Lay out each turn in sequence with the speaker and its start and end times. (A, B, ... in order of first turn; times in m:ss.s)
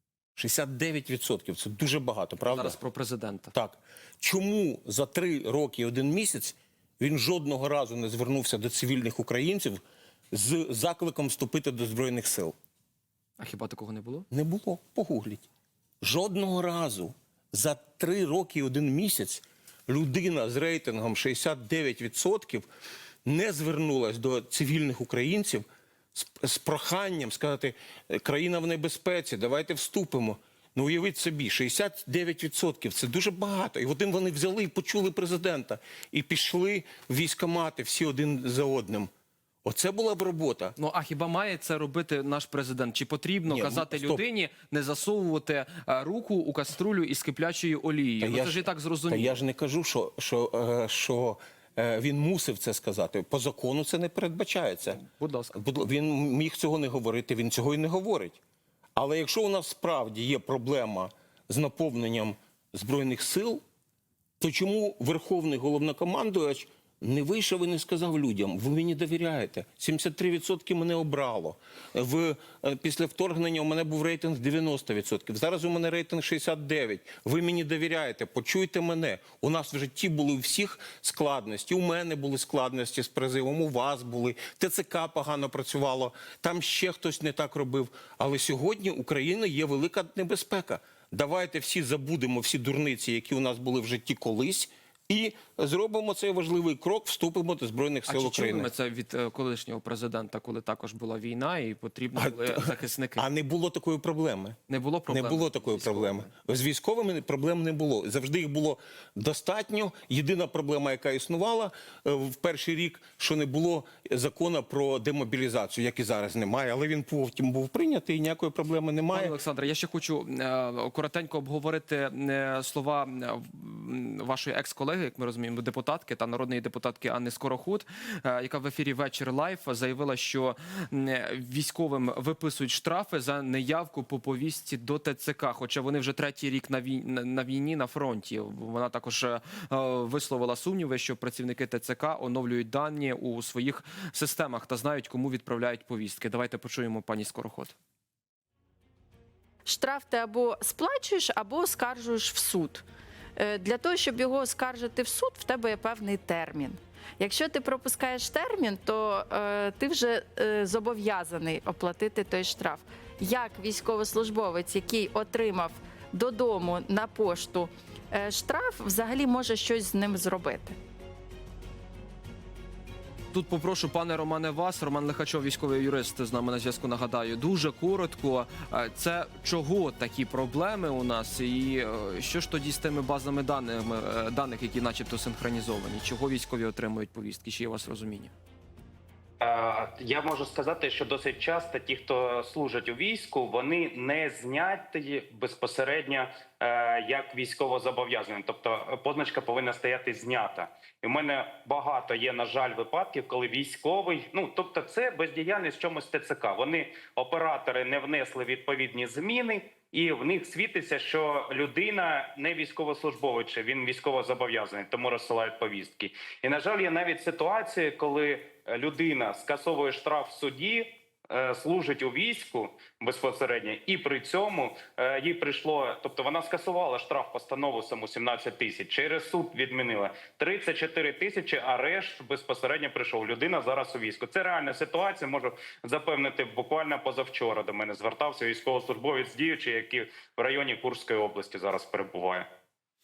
0:00.4-0:02.8 A
0:02.5-0:03.5 B
0:03.5-0:12.5 A
0:13.4-0:14.3 B
0:14.3-0:15.4 A
0:16.0-0:22.7 A
0:23.2-0:39.1 A
0:39.6-0:40.8 A
0:40.8-0:49.4 B
0:43.5-0:44.2 A
0:48.2-0:58.4 A
0:54.9-0:55.6 B
0:59.0-1:03.6 A
1:04.4-1:38.7 A
1:38.1-1:43.2 B
1:42.2-1:59.4 A
1:44.7-1:46.3 B
1:59.1-2:27.7 B
2:29.6-2:32.8 C
2:33.4-2:50.8 C
2:53.3-3:08.3 B
3:09.4-4:02.5 D